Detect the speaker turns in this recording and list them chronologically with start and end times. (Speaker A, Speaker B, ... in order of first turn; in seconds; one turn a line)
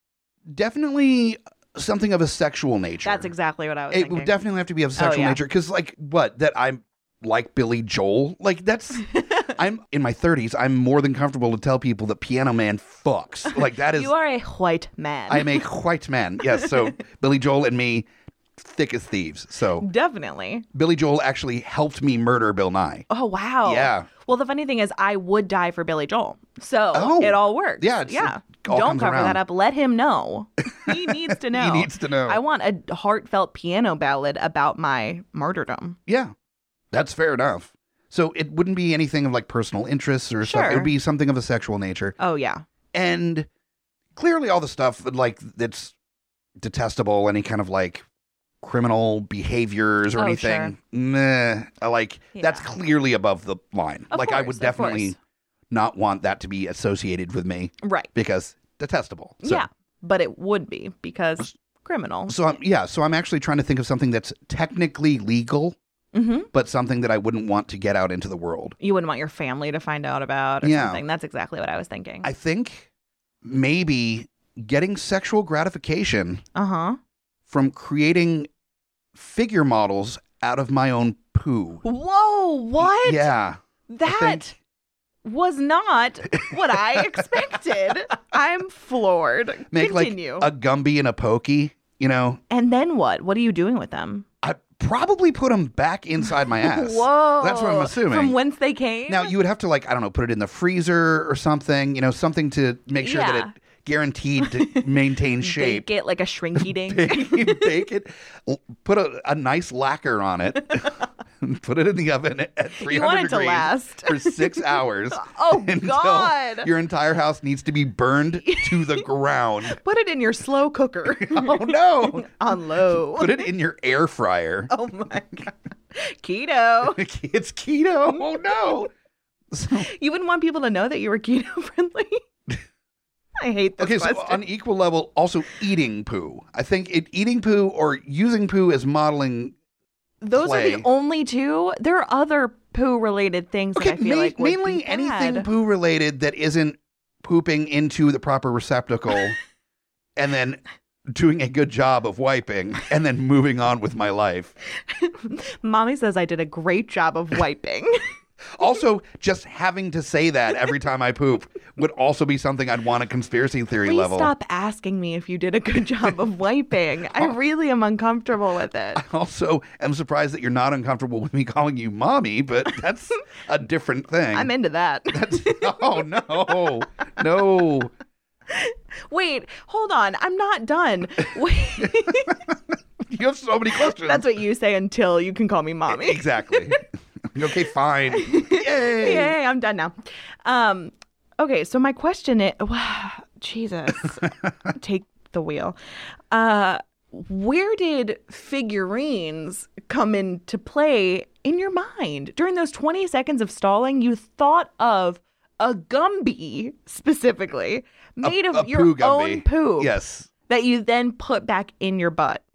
Speaker A: 0.5-3.3
Speaker B: 3.0-4.3
Speaker A: 3.9-14.1
Speaker B: 5.0-5.4
Speaker B: 13.6-15.7
Speaker A: 15.3-19.9
Speaker B: 19.8-20.7
Speaker A: 20.7-23.1
Speaker B: 23.1-36.0
Speaker A: 23.6-24.1
Speaker A: 26.9-29.4
Speaker A: 30.8-32.4
Speaker A: 36.1-36.3
Speaker A: 36.9-42.2
Speaker B: 40.4-40.9
Speaker B: 42.2-42.6
Speaker A: 42.9-43.5
Speaker A: 44.2-45.9
Speaker A: 46.6-48.0
Speaker A: 48.6-55.2
Speaker B: 50.2-50.8
Speaker B: 52.4-52.7
Speaker B: 54.1-55.1
Speaker A: 55.7-59.7
Speaker B: 57.8-58.1
Speaker B: 59.4-62.4
Speaker A: 62.3-65.8
Speaker B: 66.1-66.5
Speaker A: 66.5-68.8
Speaker B: 68.8-72.3
Speaker A: 70.6-71.0
Speaker A: 72.2-72.9
Speaker A: 73.4-76.4
Speaker B: 76.5-77.0
Speaker A: 77.5-78.5
Speaker A: 79.2-81.8
Speaker B: 81.8-83.3
Speaker A: 82.8-84.5
Speaker B: 83.9-84.5
Speaker B: 85.2-90.5
Speaker A: 89.7-92.4
Speaker B: 92.5-94.3
Speaker A: 94.4-98.3
Speaker B: 96.4-99.3
Speaker A: 99.1-105.9
Speaker B: 103.0-103.5
Speaker B: 104.5-104.9
Speaker B: 105.4-107.8
Speaker A: 106.6-119.8
Speaker B: 112.8-116.7
Speaker B: 118.5-119.0
Speaker B: 119.7-123.5
Speaker A: 121.2-122.3
Speaker A: 122.9-124.7
Speaker B: 124.7-127.0
Speaker A: 126.9-128.9
Speaker A: 129.5-129.9
Speaker B: 129.7-132.2
Speaker B: 133.4-134.4
Speaker A: 133.8-139.5
Speaker B: 140.2-145.5
Speaker A: 140.3-140.9
Speaker A: 143.8-149.4
Speaker A: 150.2-154.5
Speaker B: 154.8-157.9
Speaker A: 158.6-164.3
Speaker B: 163.8-169.0
Speaker A: 168.9-174.5
Speaker B: 174.3-176.7
Speaker A: 175.1-177.9
Speaker B: 178.5-182.4
Speaker A: 183.1-184.2
Speaker B: 183.7-186.8
Speaker A: 185.9-189.3
Speaker B: 188.1-195.8
Speaker B: 196.3-209.9
Speaker A: 208.2-210.3
Speaker B: 210.5-212.4